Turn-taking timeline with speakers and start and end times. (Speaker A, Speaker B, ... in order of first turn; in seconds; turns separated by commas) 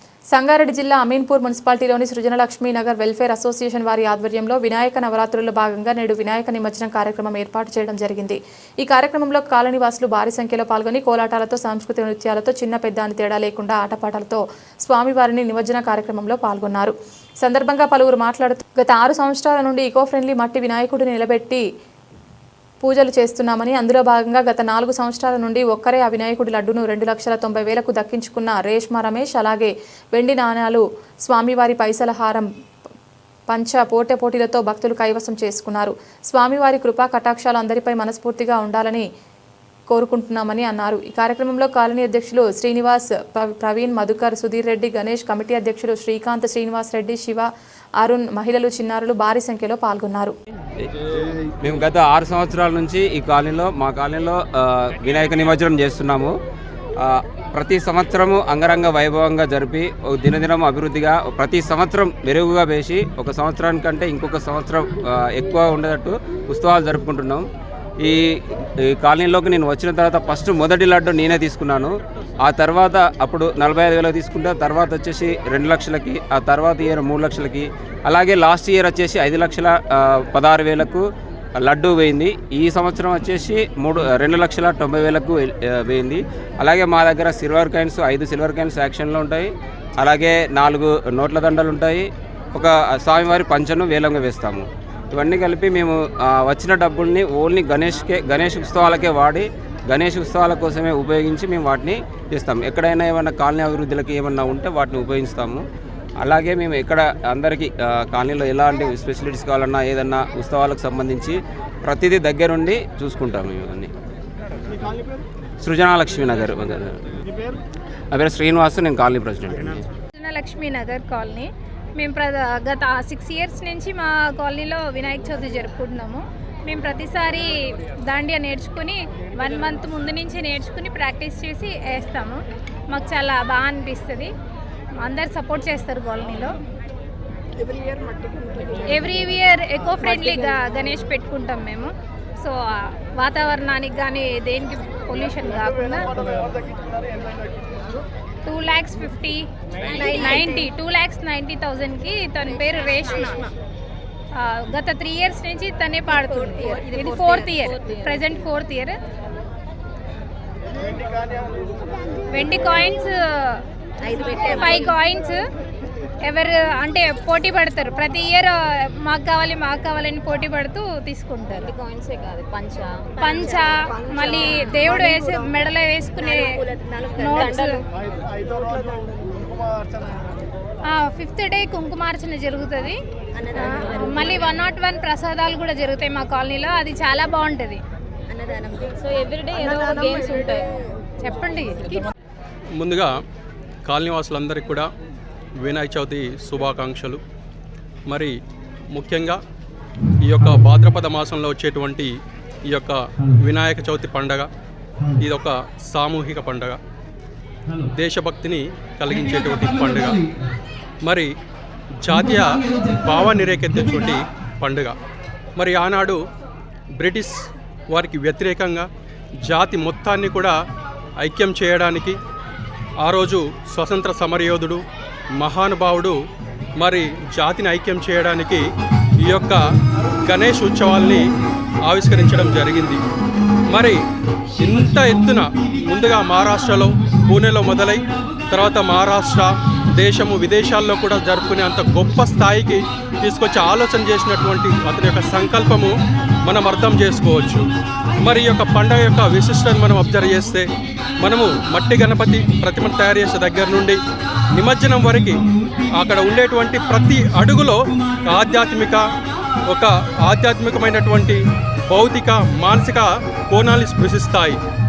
Speaker A: 0.3-21.6, Speaker A: 22.8-32.5, Speaker A: 33.5-39.0, Speaker A: 39.9-47.5, Speaker A: 48.0-50.3, Speaker B: 50.8-56.3, Speaker B: 57.0-67.5, Speaker B: 68.0-81.0, Speaker B: 81.6-105.6, Speaker B: 106.2-113.9, Speaker B: 115.6-117.0, Speaker B: 118.1-119.9, Speaker C: 120.1-134.3, Speaker C: 135.0-136.5, Speaker D: 137.9-138.8, Speaker C: 138.8-146.2, Speaker C: 148.4-153.5, Speaker D: 149.9-150.6, Speaker D: 152.6-153.4, Speaker C: 154.3-158.9, Speaker D: 156.4-158.1, Speaker C: 162.3-163.6, Speaker D: 164.0-164.9, Speaker C: 164.2-165.4, Speaker C: 166.2-171.7, Speaker D: 171.7-175.1, Speaker C: 173.2-177.8, Speaker D: 176.2-177.7, Speaker C: 180.9-183.0, Speaker D: 183.3-184.5, Speaker C: 183.5-187.8, Speaker D: 188.3-190.7, Speaker C: 191.2-192.0, Speaker E: 192.8-193.1, Speaker E: 193.8-194.9, Speaker E: 195.6-197.2, Speaker E: 198.1-198.4, Speaker E: 198.9-199.4, Speaker E: 200.2-204.5, Speaker E: 205.2-206.8, Speaker E: 207.8-210.2, Speaker E: 211.0-211.3, Speaker E: 212.0-215.0, Speaker E: 215.5-216.2, Speaker E: 217.0-218.9, Speaker E: 219.4-220.6, Speaker E: 221.2-222.2, Speaker E: 223.0-224.8, Speaker E: 225.4-226.2, Speaker E: 226.8-228.6, Speaker E: 229.2-229.6, Speaker E: 230.2-231.3, Speaker E: 231.8-233.0, Speaker E: 233.7-234.0, Speaker E: 234.6-245.9, Speaker E: 246.4-247.6, Speaker E: 248.2-250.7, Speaker E: 251.2-254.0, Speaker E: 254.5-255.4, Speaker E: 255.9-259.0, Speaker E: 259.7-264.6